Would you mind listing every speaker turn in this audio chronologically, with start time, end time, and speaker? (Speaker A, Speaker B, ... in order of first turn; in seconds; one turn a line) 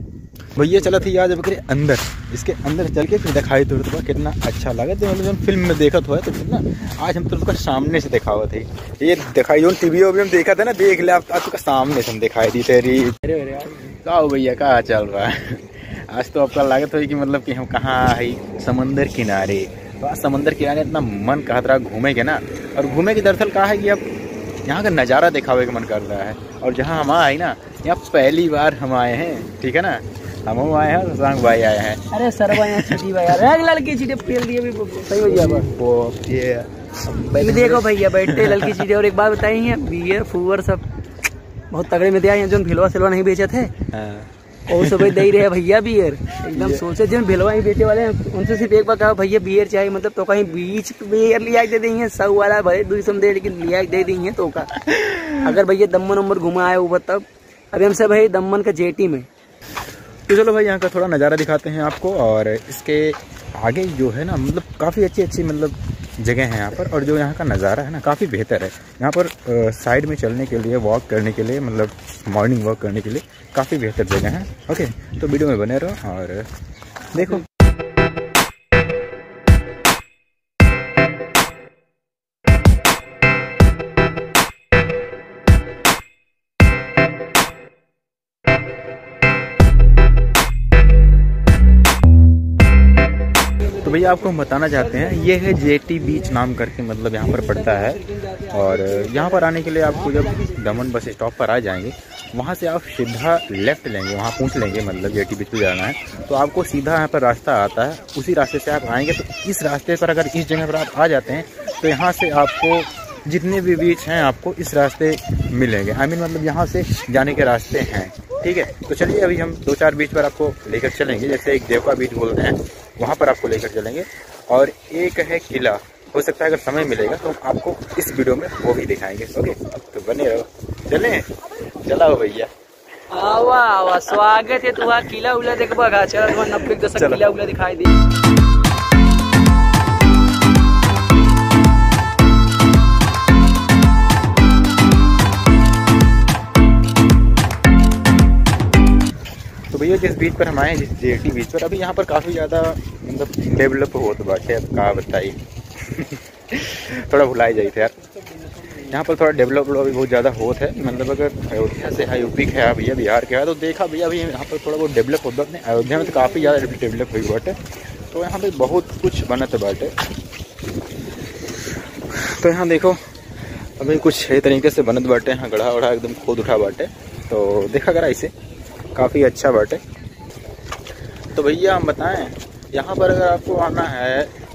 Speaker A: 0.6-13.2
Speaker B: 13.2-14.0
Speaker A: 13.9-24.0
Speaker A: 24.6-33.0
Speaker B: 32.1-35.7
Speaker A: 35.2-38.8
Speaker B: 37.3-40.9
Speaker B: 41.7-43.7
Speaker A: 43.9-45.3
Speaker B: 44.7-54.7
Speaker A: 46.5-46.8
Speaker A: 54.7-55.5
Speaker B: 55.4-59.3
Speaker A: 60.3-76.5
Speaker A: 77.1-77.5
Speaker A: 93.7-131.3
Speaker B: 98.0-98.6
Speaker A: 131.8-132.5
Speaker B: 133.1-138.0
Speaker A: 136.9-137.2
Speaker A: 149.7-157.9
Speaker A: 158.7-167.6
Speaker A: 168.1-169.9
Speaker A: 172.1-173.0
Speaker A: 173.8-178.3
Speaker A: 178.9-179.8
Speaker A: 181.3-184.3